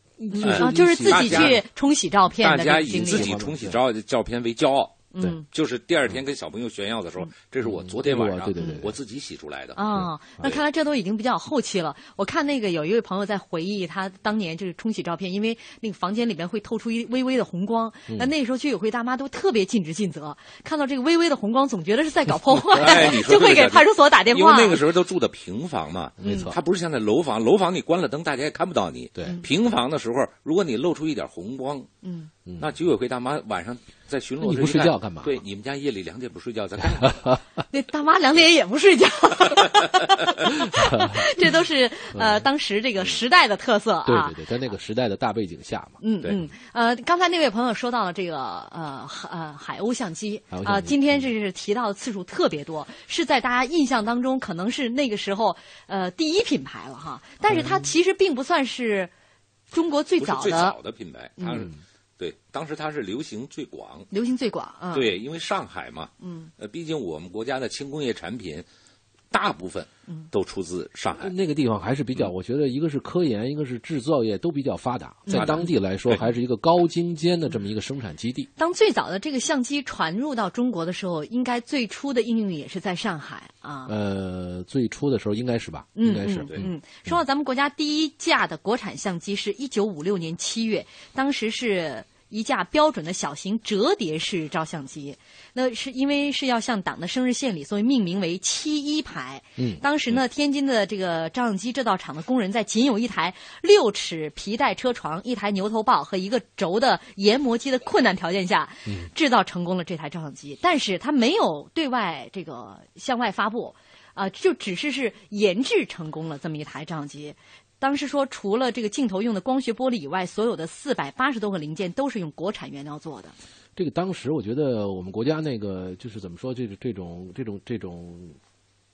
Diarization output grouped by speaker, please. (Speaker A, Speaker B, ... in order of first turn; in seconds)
Speaker A: 0.2-1.6, 2.9-3.8, 7.6-8.9, 26.2-26.6, 32.5-32.7, 34.4-35.4, 36.9-37.4, 40.5-41.5, 42.1-42.5, 44.0-46.0, 50.5-51.2, 57.5-57.9, 71.2-78.5, 83.9-87.2, 99.6-99.8, 123.8-128.4
Speaker B: 0.3-3.3, 5.1-5.5, 9.8-24.8, 26.2-26.5, 32.0-32.3, 37.7-44.4, 46.0-59.1, 59.7-60.8, 61.4-61.6, 64.1-65.1, 66.2-66.5, 75.3-75.7, 78.6-83.9, 86.0-123.3
Speaker C: 0.4-1.6, 2.4-9.8, 22.7-31.9, 32.6-37.3, 60.2-64.1, 64.9-68.7, 69.3-71.3, 75.3-76.2